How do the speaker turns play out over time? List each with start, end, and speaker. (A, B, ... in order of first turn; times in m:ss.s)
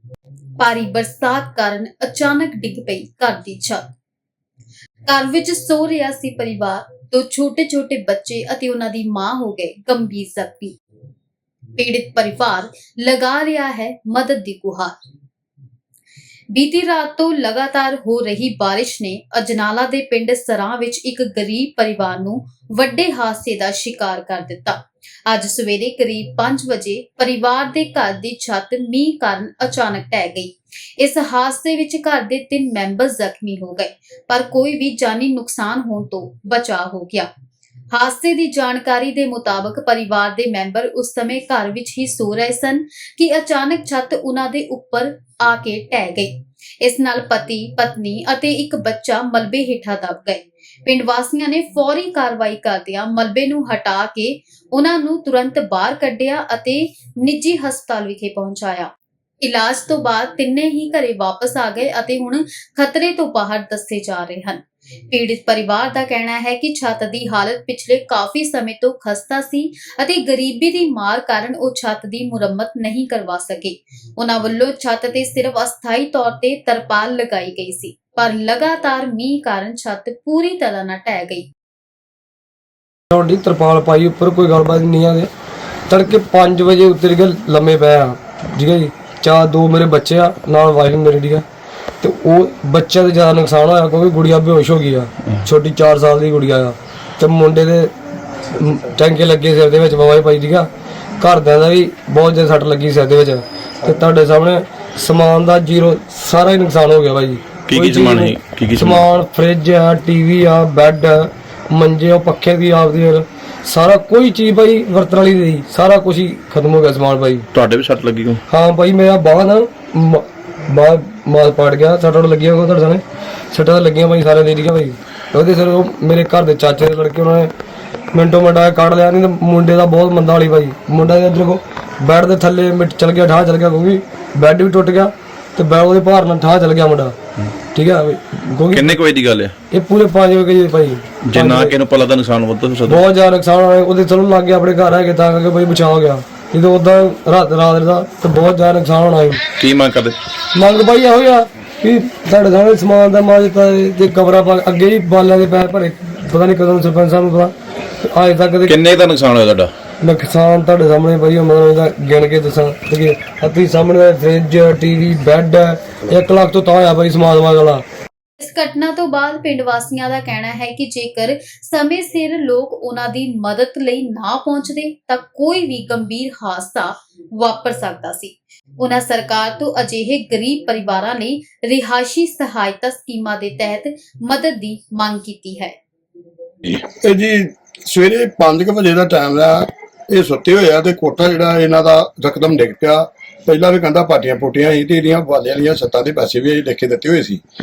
0:00.6-0:03.8 A
0:05.1-0:10.7 A
0:11.8-0:14.9 A
0:16.5-0:37.3 A
0:37.9-0:58.9 A
0:59.4-1:21.4 A
1:23.1-1:25.3 B
1:25.9-1:31.4 B
1:32.0-1:37.9 B
1:38.5-1:57.5 B
1:47.6-1:49.0 C
1:57.5-1:58.4 C
1:58.5-2:07.5 B
2:08.1-2:17.2 B
2:17.7-2:18.9 B
2:18.7-2:19.5 C
2:19.7-2:21.8 B
2:21.2-2:23.0 C
2:22.9-2:29.4 B
2:29.5-2:30.2 C
2:30.5-2:38.8 B
2:38.6-2:39.7 C
2:40.0-2:47.8 B
2:48.4-3:05.7 A
3:06.8-3:17.4 D